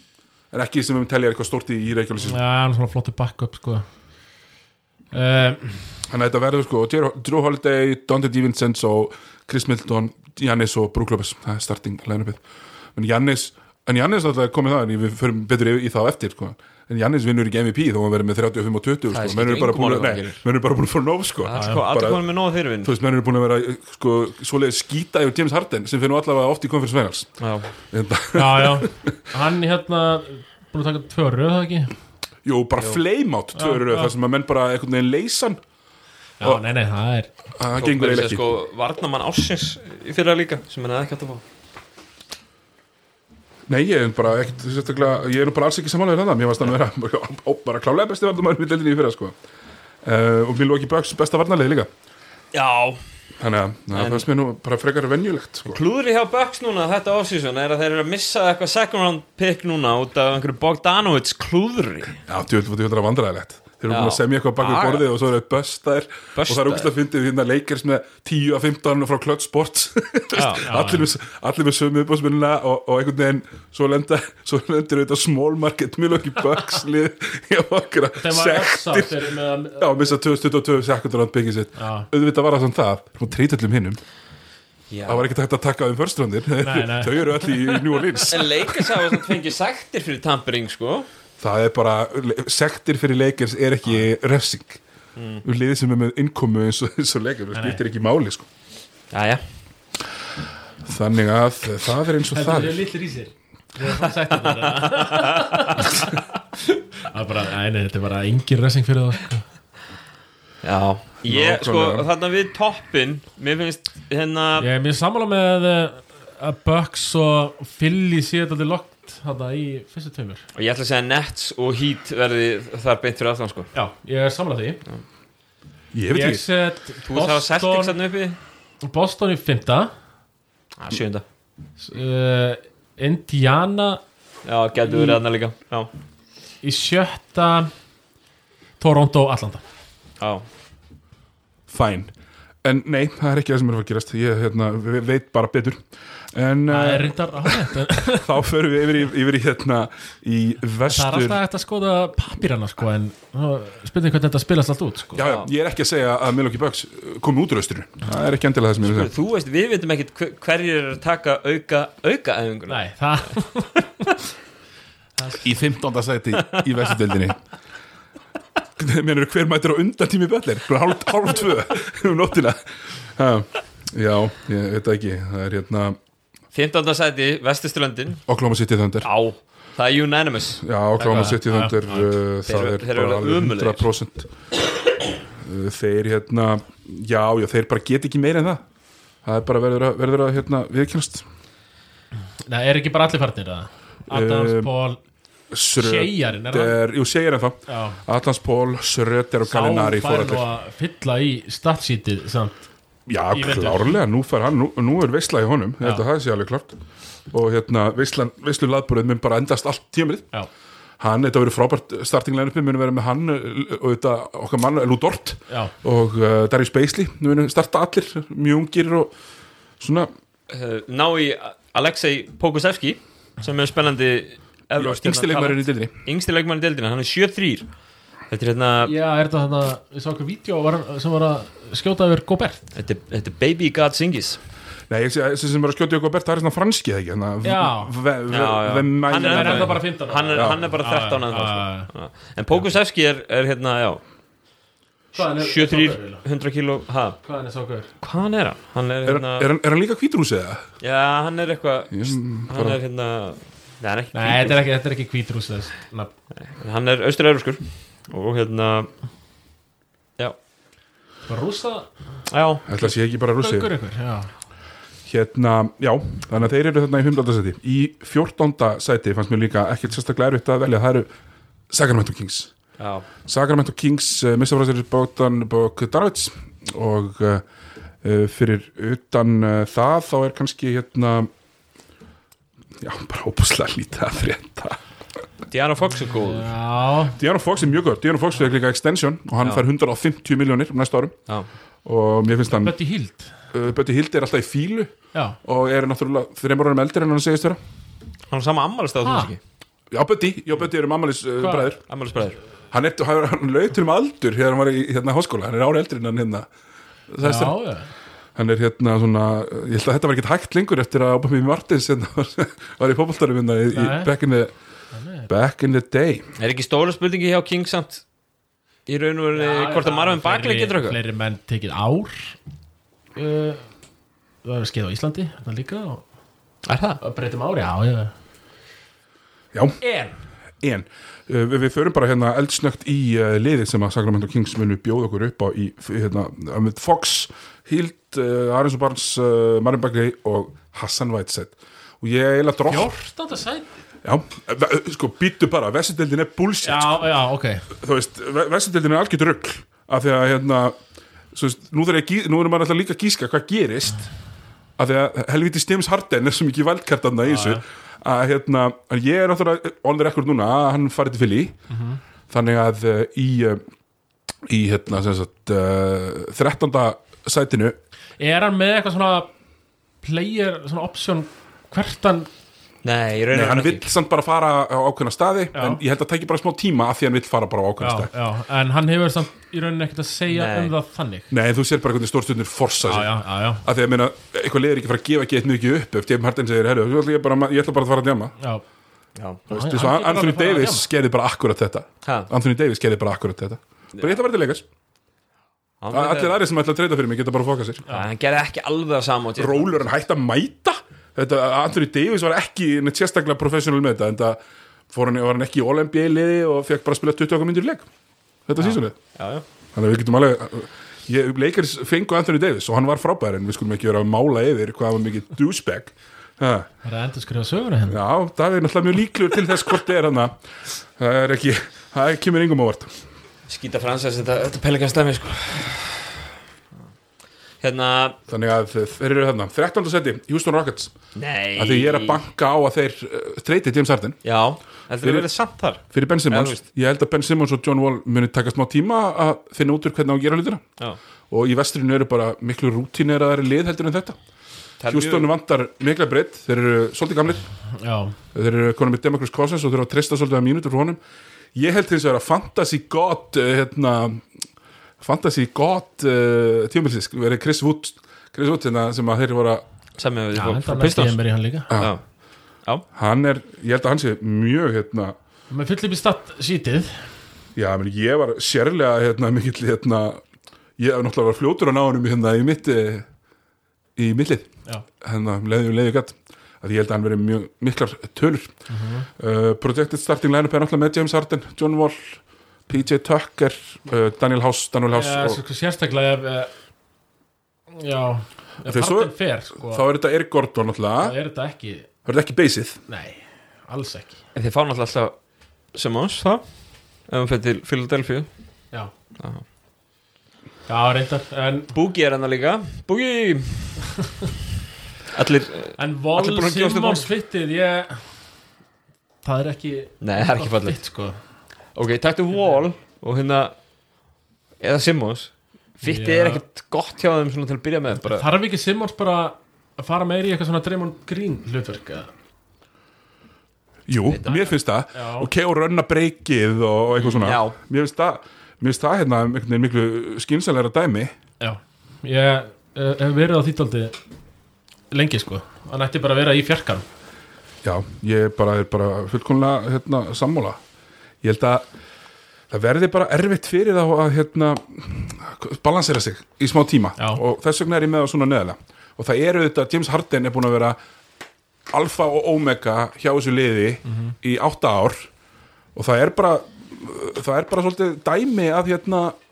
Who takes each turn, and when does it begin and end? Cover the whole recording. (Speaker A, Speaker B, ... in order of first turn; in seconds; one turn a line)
Speaker A: 0.5-2.4
Speaker B: 2.2-3.9
Speaker B: 5.1-6.0
Speaker A: 6.1-12.4
Speaker A: 12.9-22.2
Speaker C: 19.1-20.4
Speaker C: 21.4-22.9
Speaker B: 21.6-21.8
Speaker A: 22.8-27.3
Speaker C: 27.4-27.7
Speaker A: 27.9-29.1
Speaker B: 28.3-31.9
Speaker A: 32.5-35.6
Speaker B: 33.5-34.1
Speaker B: 36.4-37.3
Speaker A: 37.6-38.4
Speaker C: 37.8-41.4
Speaker A: 43.7-49.4
Speaker A: 50.0-51.9
Speaker C: 52.5-53.0
Speaker A: 53.4-55.8
Speaker C: 53.9-54.3
Speaker C: 55.7-62.2
Speaker A: 62.3-84.0
Speaker C: 63.9-65.1
Speaker C: 66.3-66.9
Speaker C: 70.3-70.7
Speaker B: 70.6-71.1
Speaker B: 78.2-80.0
Speaker B: 81.8-82.1
Speaker C: 84.9-85.3
Speaker A: 85.0-89.3
Speaker B: 86.6-88.2
Speaker C: 88.3-91.1
Speaker A: 91.4-94.8
Speaker C: 95.2-95.4
Speaker A: 95.4-98.5
Speaker B: 97.5-97.8
Speaker C: 99.1-99.4
Speaker A: 100.8-102.8
Speaker B: 102.3-106.2
Speaker C: 104.0-105.9
Speaker B: 107.0-109.5
Speaker C: 110.6-114.7
Speaker A: 111.2-112.0
Speaker B: 114.6-120.4
Speaker C: 120.5-123.7
Speaker B: 123.7-124.8
Speaker A: 125.9-126.4
Speaker B: 126.1-128.0
Speaker C: 127.0-128.4
Speaker B: 128.8-129.9
Speaker C: 130.8-131.2
Speaker B: 131.8-134.0
Speaker C: 134.4-135.9
Speaker B: 134.9-135.2
Speaker B: 136.6-137.7
Speaker B: 138.8-139.6
Speaker C: 140.2-140.4
Speaker A: 141.7-142.1
Speaker A: 142.6-151.4
Speaker B: 146.7-148.3
Speaker B: 150.9-155.3
Speaker A: 155.2-159.1
Speaker C: 155.2-155.5
Speaker C: 158.8-162.9
Speaker B: 162.7-164.1
Speaker B: 165.2-165.4
Speaker A: 165.3-167.4
Speaker A: 168.8-176.0
Speaker C: 176.5-178.2
Speaker A: 178.3-179.1
Speaker C: 179.0-181.2
Speaker A: 180.6-184.3
Speaker B: 181.0-182.1
Speaker C: 182.4-183.9
Speaker A: 185.4-188.6
Speaker A: 189.2-191.2
Speaker B: 192.5-195.0
Speaker A: 194.1-194.7
Speaker A: 195.5-200.4
Speaker B: 195.8-196.8
Speaker B: 197.7-198.0
Speaker B: 199.4-202.6
Speaker A: 203.1-206.7
Speaker B: 203.3-204.0
Speaker A: 207.3-210.3
Speaker A: 211.0-219.1
Speaker A: 219.8-220.1
Speaker C: 220.5-227.7
Speaker A: 224.8-225.9
Speaker C: 228.3-228.9
Speaker B: 228.8-232.6
Speaker C: 232.7-234.4
Speaker A: 234.9-240.6
Speaker B: 237.4-237.9
Speaker C: 238.3-244.0
Speaker B: 239.2-241.9
Speaker B: 245.1-246.2
Speaker C: 245.1-247.2
Speaker B: 247.2-247.9
Speaker C: 248.0-249.5
Speaker A: 249.1-250.7
Speaker C: 250.8-254.7
Speaker A: 251.9-252.8
Speaker B: 254.1-256.1
Speaker C: 256.4-258.9
Speaker B: 261.3-261.9
Speaker C: 262.3-262.6
Speaker A: 262.6-263.7
Speaker B: 263.4-264.3
Speaker A: 265.1-271.1
Speaker A: 271.7-272.5
Speaker C: 272.8-273.1
Speaker A: 273.2-277.4
Speaker A: 278.0-281.3
Speaker A: 282.8-284.8
Speaker C: 285.5-286.5
Speaker B: 286.1-287.2
Speaker A: 287.1-291.2
Speaker A: 291.8-292.7
Speaker B: 292.5-293.3
Speaker A: 293.5-297.6
Speaker C: 298.3-299.4
Speaker B: 299.0-299.3
Speaker A: 299.9-301.8
Speaker B: 301.4-301.7
Speaker C: 301.9-302.4
Speaker A: 302.7-306.5
Speaker A: 307.1-307.6
Speaker B: 307.2-307.9
Speaker A: 308.4-314.5
Speaker B: 313.7-314.1
Speaker B: 314.9-315.3
Speaker A: 315.3-316.2
Speaker C: 316.4-318.0
Speaker C: 318.9-321.0
Speaker B: 319.3-322.4
Speaker B: 323.1-323.7
Speaker B: 324.4-326.0
Speaker C: 326.6-327.0
Speaker B: 327.0-328.1
Speaker A: 329.5-329.8
Speaker B: 329.8-330.2
Speaker A: 330.6-342.9
Speaker B: 342.7-343.7
Speaker A: 344.0-347.0
Speaker B: 346.6-347.7
Speaker A: 347.7-350.8
Speaker A: 351.3-354.1
Speaker A: 354.8-361.6
Speaker B: 357.2-357.6
Speaker B: 361.7-362.0
Speaker A: 362.3-363.6
Speaker A: 364.4-367.8
Speaker B: 368.2-369.3
Speaker B: 370.0-372.3
Speaker C: 372.8-373.9
Speaker A: 373.3-378.1
Speaker B: 375.5-375.8
Speaker B: 377.8-381.3
Speaker C: 380.3-380.7
Speaker A: 381.3-388.3
Speaker B: 382.8-383.6
Speaker C: 389.1-389.4
Speaker A: 389.5-394.6
Speaker B: 389.5-390.9
Speaker C: 395.8-396.4
Speaker A: 395.9-397.8
Speaker C: 397.9-399.8
Speaker A: 399.4-404.4
Speaker A: 404.9-407.9
Speaker A: 408.5-408.9
Speaker C: 408.6-409.4
Speaker A: 409.7-416.7
Speaker B: 416.8-418.0
Speaker A: 417.9-420.4
Speaker A: 421.0-422.9
Speaker C: 423.5-426.3
Speaker C: 427.6-428.2
Speaker A: 428.3-430.9
Speaker C: 431.1-432.2
Speaker A: 431.6-434.2
Speaker C: 434.2-436.6
Speaker A: 435.0-435.3
Speaker A: 435.9-440.6
Speaker A: 441.3-444.2
Speaker C: 444.8-445.3
Speaker A: 444.9-447.4
Speaker B: 447.8-448.1
Speaker A: 448.3-451.0
Speaker A: 451.6-454.3
Speaker A: 455.0-459.6
Speaker C: 460.0-461.2
Speaker B: 460.3-461.7
Speaker A: 461.7-461.9
Speaker C: 461.7-462.0
Speaker A: 462.9-465.1
Speaker B: 465.5-467.1
Speaker A: 467.6-470.2
Speaker A: 470.8-473.1
Speaker A: 473.9-474.5
Speaker A: 475.0-478.5
Speaker B: 478.7-479.1
Speaker A: 479.2-485.4
Speaker B: 484.9-486.5
Speaker B: 487.7-489.8
Speaker A: 488.6-491.1
Speaker B: 491.0-491.9
Speaker A: 492.1-492.8
Speaker B: 492.9-494.1
Speaker C: 494.3-495.1
Speaker C: 495.7-496.4
Speaker C: 497.1-498.3
Speaker B: 500.7-501.7
Speaker C: 501.7-503.8
Speaker C: 505.1-507.1
Speaker B: 505.8-508.0
Speaker B: 509.2-511.1
Speaker C: 510.0-510.8
Speaker C: 511.7-513.5
Speaker C: 514.6-518.3
Speaker B: 515.8-516.4
Speaker B: 518.0-522.1
Speaker A: 523.9-531.1
Speaker C: 524.0-524.5
Speaker B: 524.9-525.3
Speaker C: 527.0-527.6
Speaker B: 531.4-534.0
Speaker B: 534.9-536.8
Speaker A: 537.6-540.6
Speaker A: 541.2-541.7
Speaker A: 542.5-550.8
Speaker A: 551.7-555.1
Speaker B: 553.9-554.1
Speaker A: 555.7-559.1